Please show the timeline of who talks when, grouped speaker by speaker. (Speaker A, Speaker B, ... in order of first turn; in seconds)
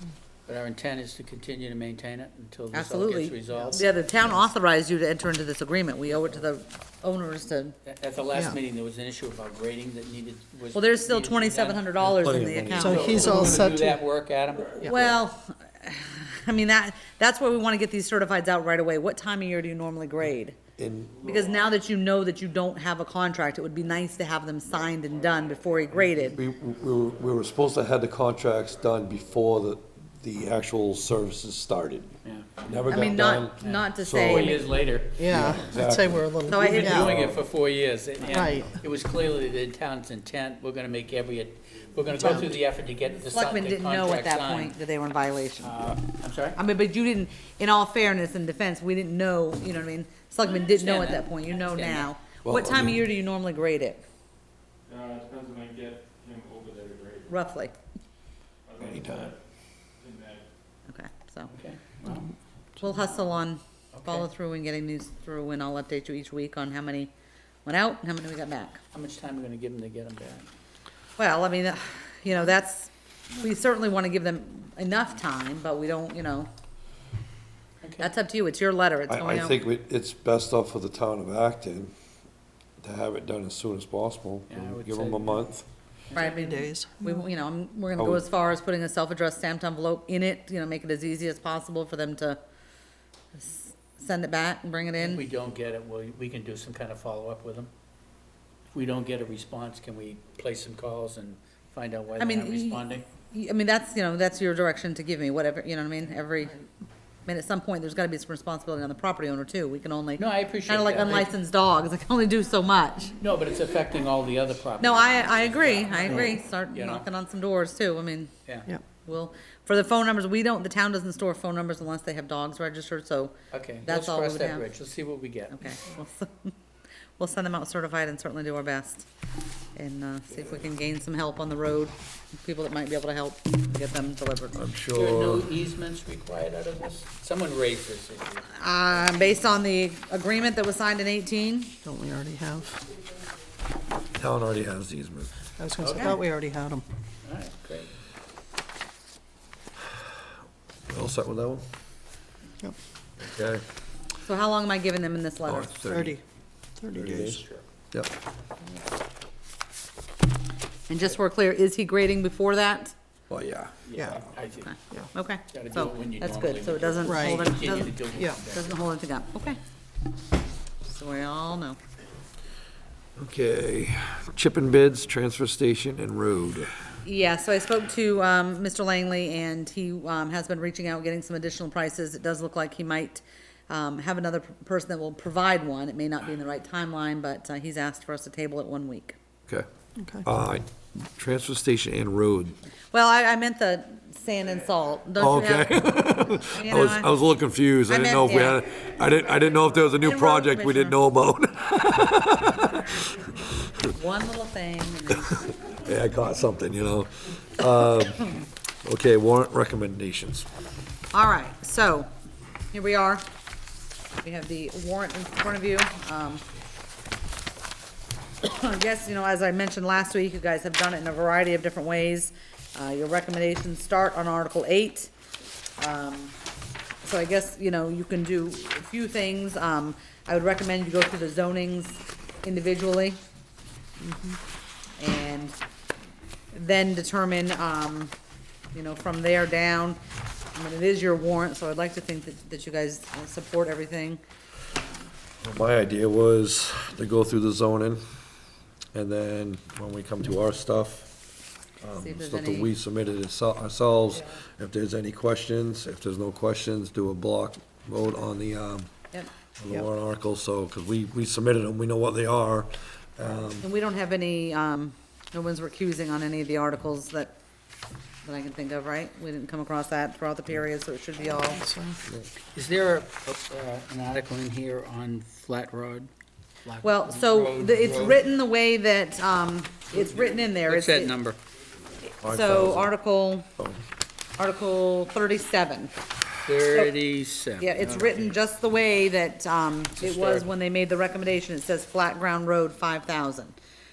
Speaker A: 0.5-4.5, 7.9-11.9, 12.8-15.2, 32.2-32.5, 33.6-35.7, 36.4-44.8, 45.6-46.6, 50.4-52.1, 61.5-62.3, 63.9-64.3, 68.9-70.5, 77.8-78.1, 84.5-85.5, 86.1-86.4, 95.0-97.7, 98.7-103.0, 110.2-111.3, 113.2-117.1, 118.5-118.7, 123.5-125.5, 134.9-138.6, 145.8-146.2, 147.2-147.9, 157.2-157.6, 163.8-164.8, 165.5-168.8, 272.5-276.1, 276.6-278.2, 280.5-281.4, 286.4-288.4, 290.0-290.5
Speaker B: 2.7-7.8, 10.7-13.5, 14.8-20.6, 21.2-26.4, 32.9-34.7, 36.5-37.2, 42.2-42.5, 43.2-45.8, 46.6-54.0, 57.3-57.7, 60.9-61.5, 62.8-67.1, 67.7-68.8, 71.2-76.5, 78.0-79.6, 86.2-92.4, 93.3-95.2, 102.2-106.6, 107.3-113.2, 114.8-118.3, 119.0-124.7, 125.5-126.5, 127.2-129.1, 129.8-134.6, 138.5-141.8, 145.9-146.2, 154.2-155.8, 160.9-162.9, 164.7-169.6, 170.8-171.8, 177.0-189.2, 192.9-197.1, 197.9-198.6, 199.7-201.0, 203.9-205.5, 211.1-212.1, 212.7-213.2, 214.2-216.4, 218.4-225.1, 225.8-226.3, 227.0-233.2, 235.0-235.6, 236.5-238.1, 238.7-240.0, 240.5-244.2, 252.0-252.7, 263.6-267.4, 268.2-271.7, 276.8-281.1, 282.0-283.5, 284.4-285.9, 287.6-293.6
Speaker C: 12.0-13.6, 20.8-21.2, 26.2-32.1, 32.7-34.6, 35.2-37.4, 52.4-53.0, 58.8-59.3, 79.1-81.9, 82.8-85.7, 88.0-88.2, 134.6-135.5, 144.2-145.3, 150.9-151.6, 153.2-153.6, 155.5-156.2, 156.9-158.1, 163.3-163.7, 173.2-176.7, 190.2-192.6, 195.2-203.5, 205.8-208.3, 208.8-210.5, 245.4-248.0, 248.9-251.1, 251.8-258.9, 259.6-263.7, 282.2-282.9
Speaker D: 12.8-13.9, 35.2-37.1, 38.3-38.8, 86.2-87.2, 141.8-142.8, 145.6-146.8, 155.9-156.2, 156.8-157.4, 167.1-167.5, 190.0-190.2, 234.0-234.4, 271.6-272.0
Speaker E: 21.1-21.6, 27.1-27.6, 54.9-57.4, 58.7-59.4, 60.0-60.5